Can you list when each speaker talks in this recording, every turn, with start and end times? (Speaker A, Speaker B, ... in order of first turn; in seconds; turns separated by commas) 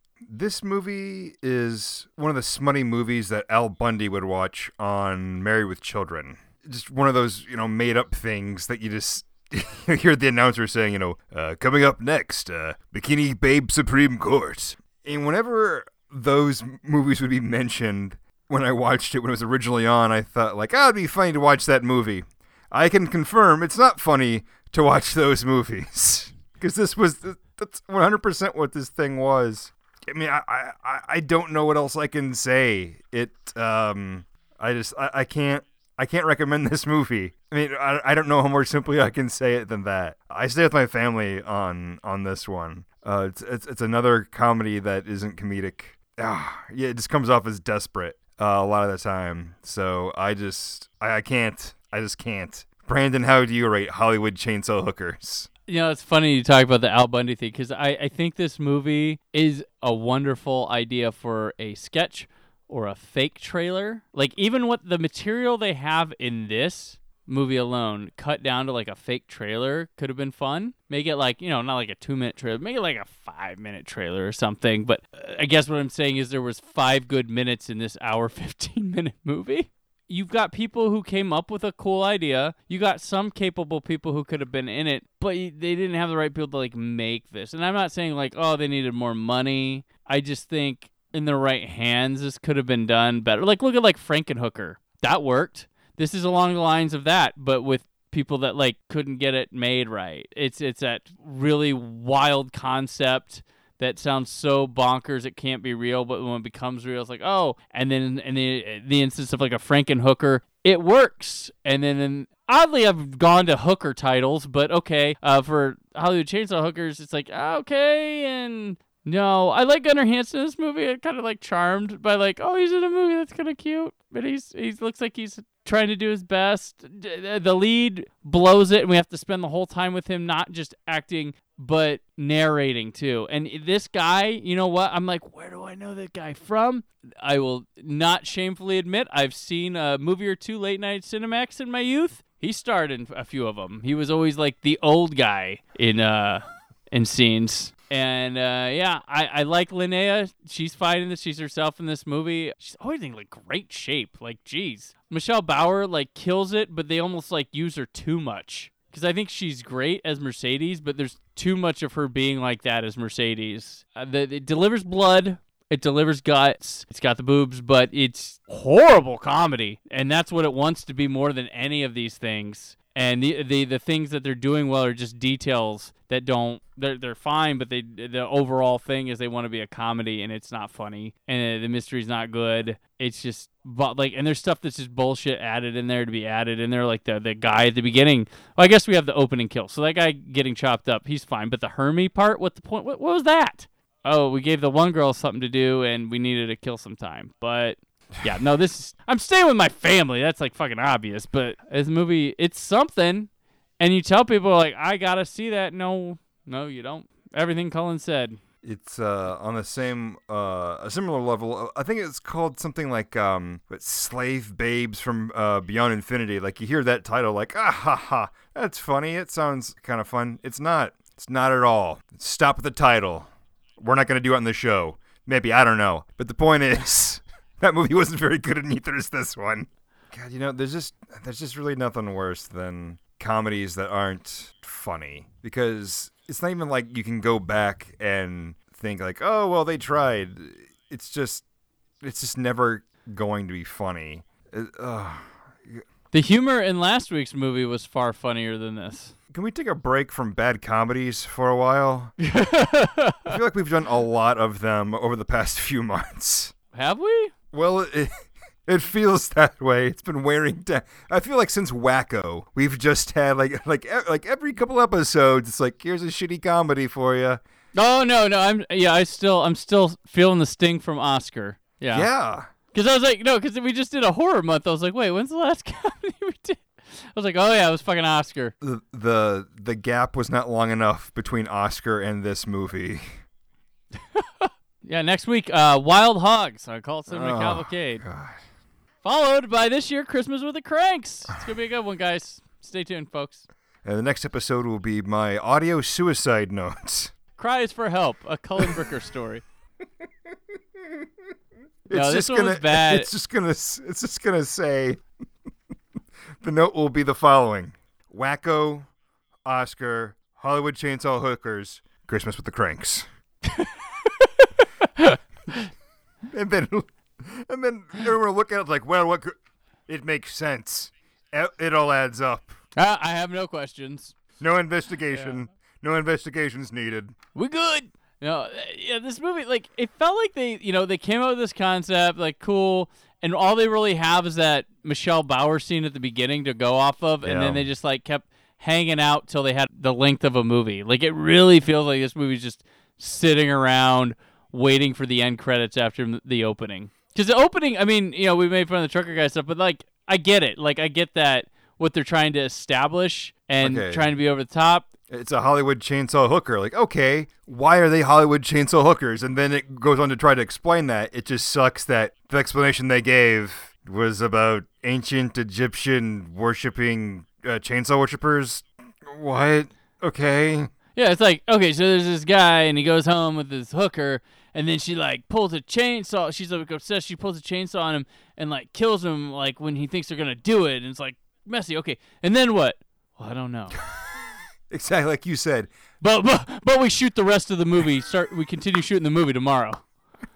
Speaker A: 0.3-55.5, Speaker B: 55.7-208.4, Speaker A: 208.6-241.4, Speaker A: 242.0-245.8, Speaker B: 246.1-249.1, Speaker A: 249.3-252.1, Speaker B: 252.2-253.3, Speaker A: 253.2-256.5, Speaker B: 256.7-257.3, Speaker A: 257.5-258.1, Speaker A: 258.6-267.4, Speaker B: 267.7-272.1, Speaker A: 271.9-272.5, Speaker B: 272.7-278.5, Speaker A: 278.6-283.2, Speaker B: 284.1-288.0, Speaker A: 287.1-288.4, Speaker B: 289.0-293.4, Speaker A: 293.8-297.1, Speaker B: 297.4-299.4, Speaker A: 301.9-305.0, Speaker B: 301.9-303.1, Speaker A: 306.4-308.9, Speaker A: 309.4-313.1, Speaker B: 314.2-315.6, Speaker A: 316.3-322.6, Speaker B: 322.8-324.1, Speaker A: 324.4-327.1, Speaker B: 327.3-354.9, Speaker A: 337.2-337.6, Speaker A: 353.6-354.1, Speaker A: 355.1-370.7, Speaker B: 370.9-383.8, Speaker A: 384.7-385.7, Speaker B: 386.0-389.8